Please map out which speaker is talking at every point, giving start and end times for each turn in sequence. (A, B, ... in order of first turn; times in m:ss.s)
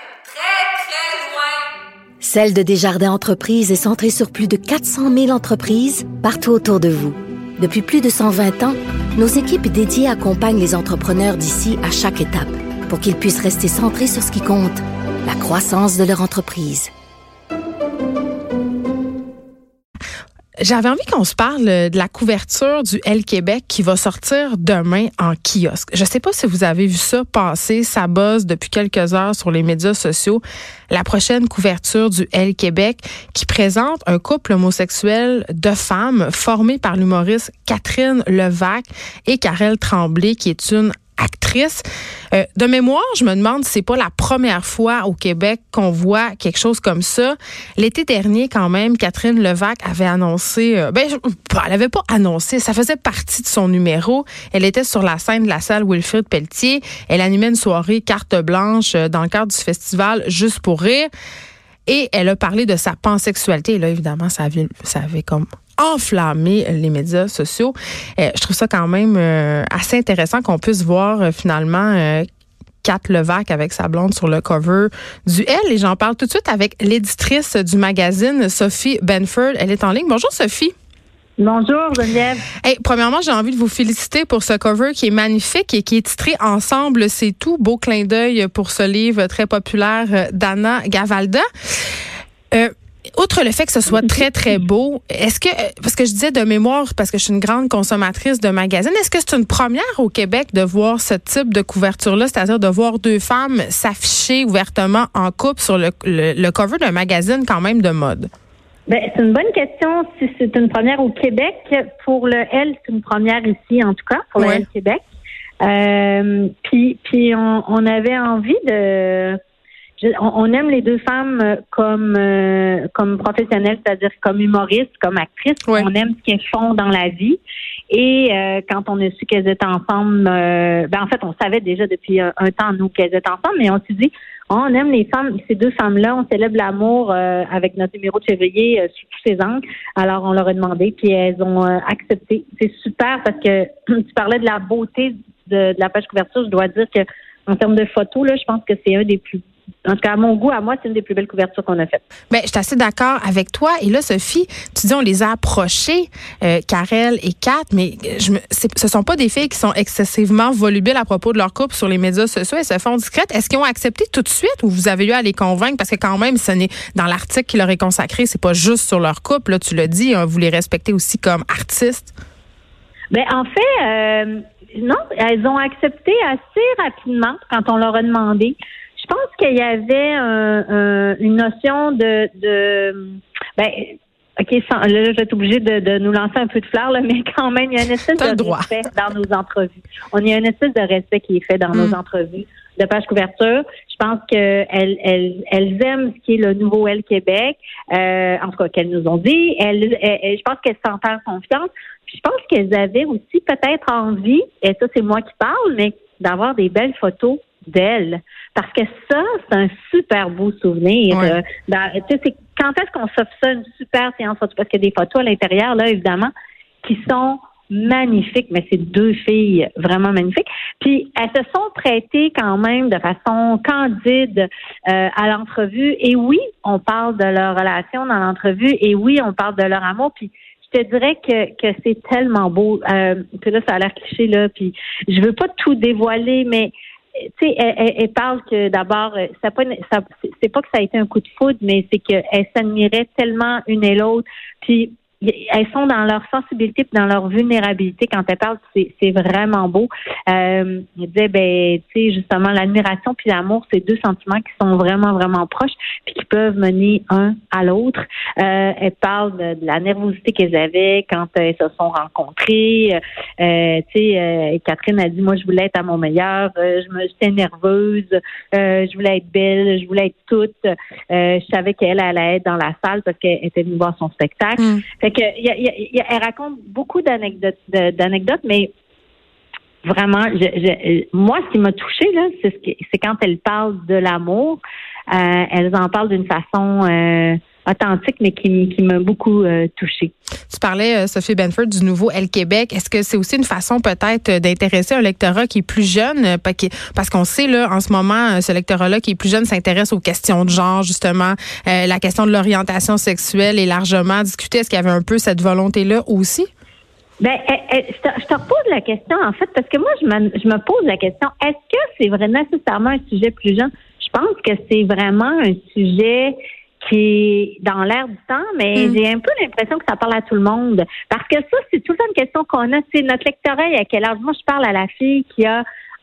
0:02.2-0:16.9 A
0:20.6-1:01.1 B
1:01.9-1:12.3 B
1:12.8-1:20.7 B
1:21.4-1:22.4 C
1:22.6-1:31.9 B
1:32.5-1:48.3 B
1:48.9-1:55.0 C
1:54.4-1:54.6 B
1:55.6-1:59.4 C
2:00.0-2:32.0 C
2:32.3-2:52.1 B
2:53.1-3:36.3 C
3:08.2-3:08.8 B
3:31.1-3:31.4 B
3:36.8-3:56.7 C
3:57.4-4:30.6 C
4:31.1-4:38.7 C
4:34.6-4:34.8 B
4:39.8-4:50.1 C
4:50.5-5:06.5 B
5:07.2-5:25.6 C